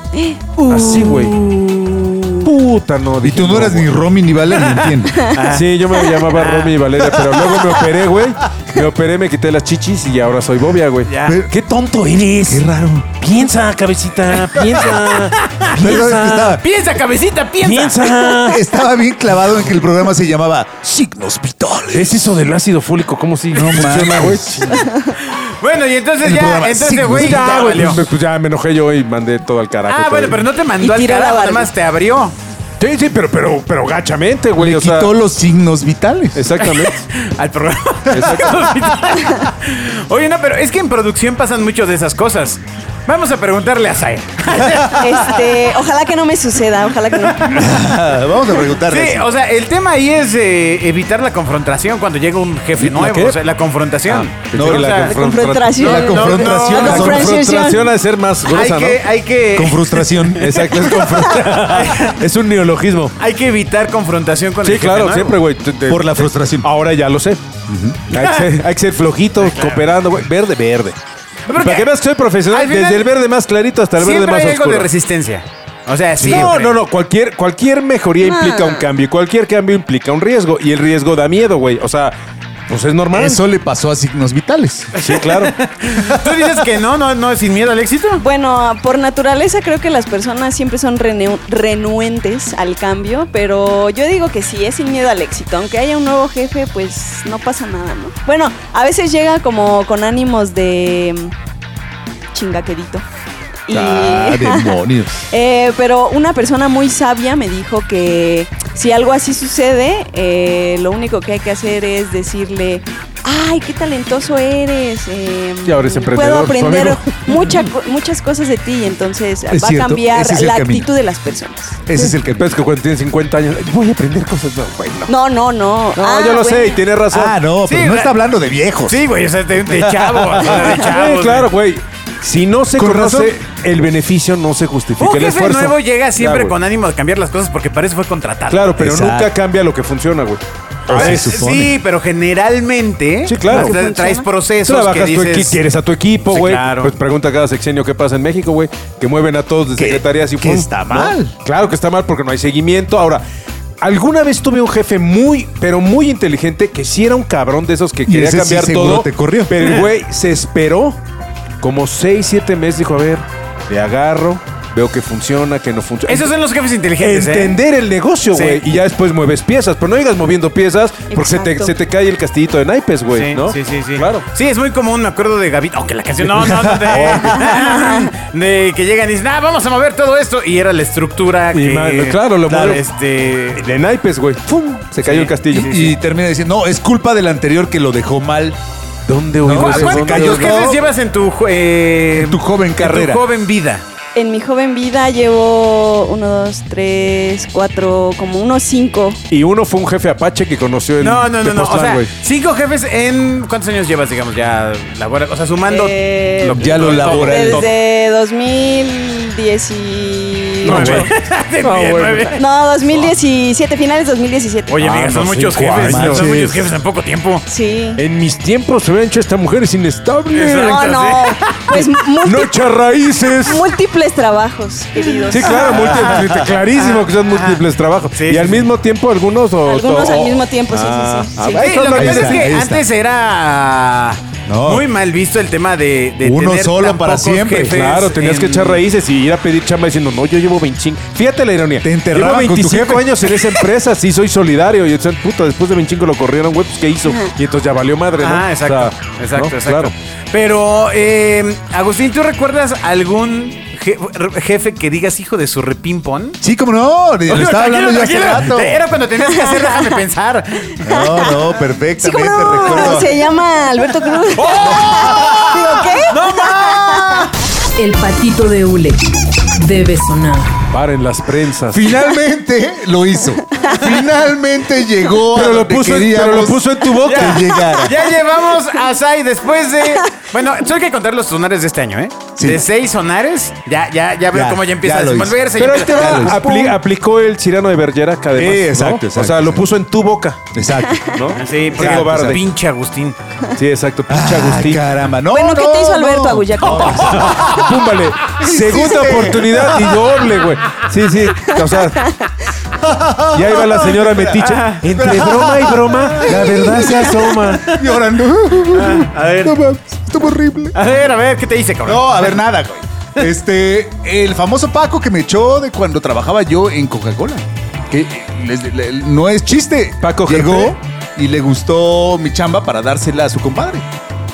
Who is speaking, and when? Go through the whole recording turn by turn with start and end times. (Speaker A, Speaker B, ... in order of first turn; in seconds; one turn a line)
Speaker A: 0.1-2.5
Speaker B: 0.7-1.4
Speaker B: 2.4-4.0
Speaker C: 3.2-5.2
Speaker D: 4.5-7.9
Speaker B: 5.5-12.7
Speaker D: 11.1-11.4
Speaker C: 11.2-11.5
Speaker C: 12.5-13.1
Speaker B: 13.2-16.6
Speaker D: 14.5-15.9
Speaker C: 15.7-16.6
Speaker D: 16.6-18.3
Speaker B: 17.6-18.6
Speaker C: 18.4-22.3
Speaker B: 21.9-24.9
Speaker C: 23.5-24.4
Speaker A: 24.8-25.1
Speaker D: 25.2-28.0
Speaker C: 26.2-27.8
Speaker B: 27.1-30.4
Speaker D: 29.8-32.3
Speaker A: 30.8-31.7
Speaker B: 32.8-35.1
Speaker C: 34.5-36.5
Speaker B: 36.3-37.0
Speaker D: 36.6-45.5
Speaker B: 38.1-38.8
Speaker A: 44.8-47.7
Speaker D: 47.2-47.6
Speaker C: 47.4-49.3
Speaker D: 48.8-55.1
Speaker B: 52.8-53.4
Speaker B: 54.0-55.8
Speaker C: 54.5-54.9
Speaker A: 54.9-57.9
Speaker D: 55.7-56.9
Speaker C: 55.8-57.3
Speaker B: 56.8-59.0
Speaker D: 58.4-62.2
Speaker C: 59.5-60.6
Speaker B: 60.3-63.1
Speaker D: 63.2-65.4
Speaker B: 64.6-67.4
Speaker C: 65.9-66.7
Speaker C: 67.7-68.0
Speaker D: 68.1-68.5
Speaker B: 68.1-71.0
Speaker D: 69.4-69.8
Speaker D: 71.5-71.9
Speaker B: 71.5-74.9
Speaker D: 72.4-73.1
Speaker D: 74.0-76.8
Speaker B: 76.2-82.2
Speaker C: 76.2-76.5
Speaker A: 78.2-78.8
Speaker B: 82.7-83.4
Speaker C: 83.1-84.9
Speaker B: 85.0-85.5
Speaker D: 85.0-88.2
Speaker A: 88.2-101.3
Speaker A: 102.3-103.0
Speaker A: 103.7-121.8
Speaker C: 103.7-105.2
Speaker B: 115.6-117.3
Speaker C: 119.5-120.9
Speaker C: 121.9-122.5
Speaker B: 121.9-125.1
Speaker A: 125.1-126.8
Speaker B: 125.9-127.4
Speaker C: 127.1-129.0
Speaker D: 127.7-128.2
Speaker D: 128.9-131.5
Speaker B: 130.4-136.6
Speaker C: 132.7-133.4
Speaker D: 135.0-138.7
Speaker B: 138.5-141.5
Speaker C: 138.8-139.3
Speaker C: 140.9-141.7
Speaker D: 140.9-145.6
Speaker B: 143.2-143.8
Speaker A: 143.4-144.3
Speaker B: 144.6-153.2
Speaker D: 146.2-146.9
Speaker C: 149.8-151.3
Speaker B: 153.8-161.0
Speaker C: 158.0-159.6
Speaker B: 161.6-166.3
Speaker D: 166.1-167.6
Speaker B: 167.0-174.3
Speaker D: 168.3-168.7
Speaker A: 171.1-171.7
Speaker D: 173.1-183.7
Speaker C: 176.4-177.6
Speaker B: 176.9-177.3
Speaker A: 177.4-178.1
Speaker B: 181.5-182.8
Speaker C: 182.5-182.8
Speaker B: 183.6-185.7
Speaker C: 184.8-188.6
Speaker D: 185.0-185.9
Speaker B: 189.1-190.8
Speaker C: 189.4-190.8
Speaker D: 189.5-193.8
Speaker C: 192.2-193.2
Speaker A: 194.1-199.2
Speaker B: 199.3-202.1
Speaker D: 201.0-207.7
Speaker A: 205.7-211.1
Speaker C: 206.4-207.7
Speaker B: 210.6-212.4
Speaker D: 210.6-213.1
Speaker A: 212.3-214.8
Speaker D: 214.7-217.4
Speaker B: 214.8-216.7
Speaker C: 215.8-216.3
Speaker A: 217.5-218.0
Speaker B: 218.0-220.8
Speaker D: 220.3-221.7
Speaker A: 220.6-222.7
Speaker B: 221.7-223.7
Speaker A: 223.4-226.0
Speaker D: 225.1-227.6
Speaker B: 225.3-232.1
Speaker C: 225.9-226.5
Speaker D: 228.1-228.7
Speaker A: 229.7-232.4
Speaker D: 231.5-238.8
Speaker C: 231.9-232.8
Speaker C: 234.4-234.8
Speaker C: 236.2-237.8
Speaker B: 237.6-249.9
Speaker C: 241.8-243.2
Speaker D: 248.2-256.4
Speaker C: 256.4-258.8
Speaker D: 257.3-260.8
Speaker C: 260.8-263.1
Speaker A: 260.9-261.4
Speaker A: 262.0-267.3
Speaker D: 264.4-267.3
Speaker E: 267.8-270.5
Speaker B: 270.7-271.9
Speaker C: 271.7-278.0
Speaker B: 275.3-277.5
Speaker D: 277.0-286.5
Speaker C: 282.4-282.6
Speaker C: 284.3-286.4
Speaker B: 285.5-290.4
Speaker A: 286.5-286.7
Speaker C: 288.3-289.7
Speaker C: 290.5-291.1
Speaker B: 291.1-292.5
Speaker D: 291.4-293.2
Speaker C: 291.8-292.3
Speaker B: 293.5-294.9
Speaker C: 294.1-297.7
Speaker A: 295.3-297.6
Speaker D: 296.8-297.5
Speaker B: 297.0-302.1
Speaker D: 298.4-298.9
Speaker C: 298.4-300.1
Speaker C: 302.8-310.7
Speaker B: 303.3-307.7
Speaker D: 304.4-305.1
Speaker D: 307.1-308.0
Speaker D: 308.7-309.6
Speaker D: 310.7-312.4
Speaker C: 311.9-323.8
Speaker B: 320.0-320.8